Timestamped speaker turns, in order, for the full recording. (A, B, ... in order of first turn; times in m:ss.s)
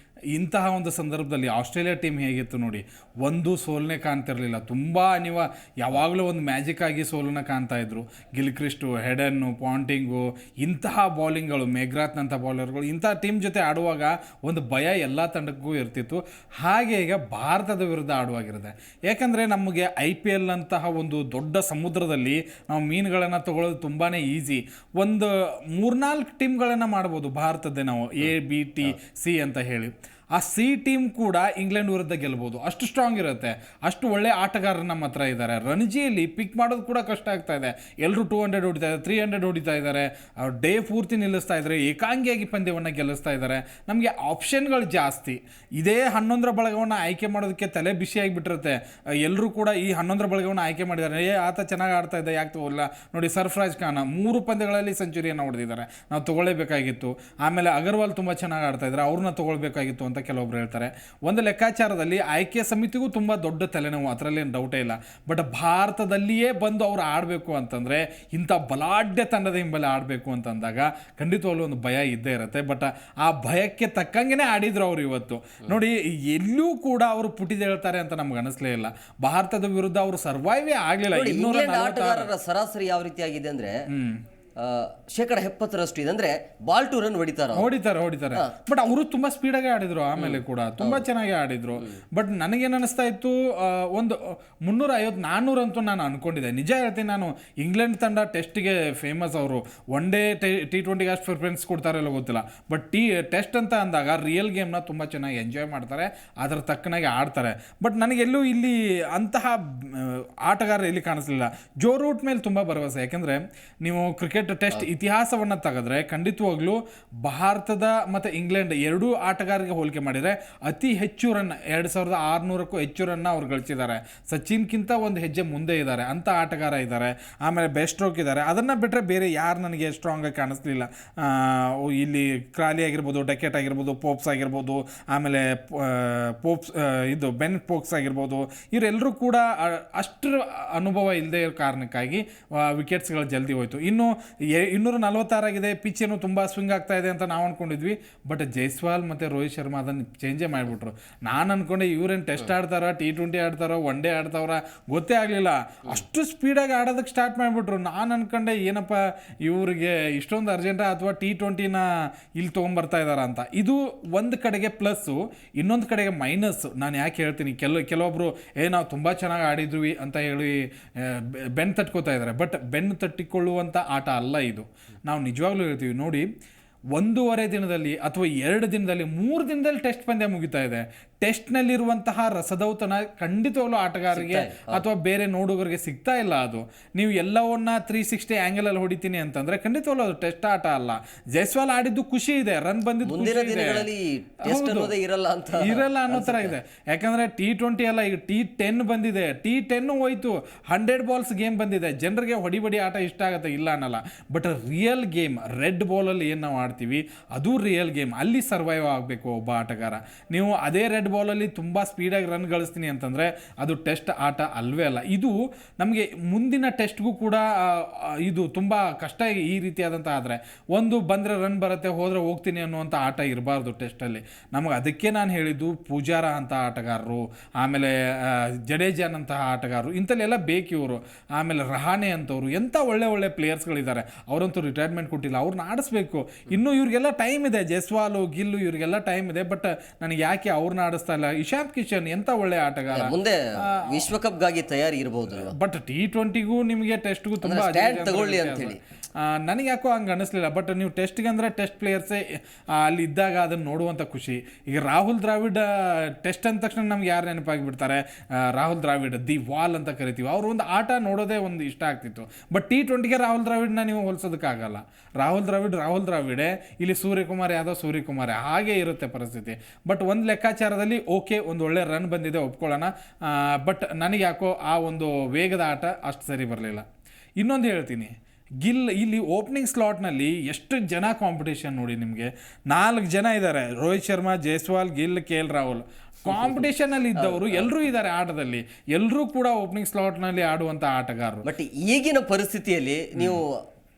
0:00.3-1:22.3 A
1:21.1-1:23.8 B
1:23.9-1:24.2 A
1:24.6-1:27.7 B
1:27.5-2:56.3 A
1:30.2-1:31.0 B
2:56.9-3:13.8 A
3:04.1-3:04.8 B
3:13.0-3:16.6 B
3:14.4-3:14.9 A
3:15.6-4:04.1 A
4:02.9-4:05.5 B
4:05.3-4:36.8 A
4:07.4-4:08.8 B
4:37.4-4:51.4 A
4:46.3-4:47.7 B
4:51.4-4:53.6 B
4:53.2-4:53.4 A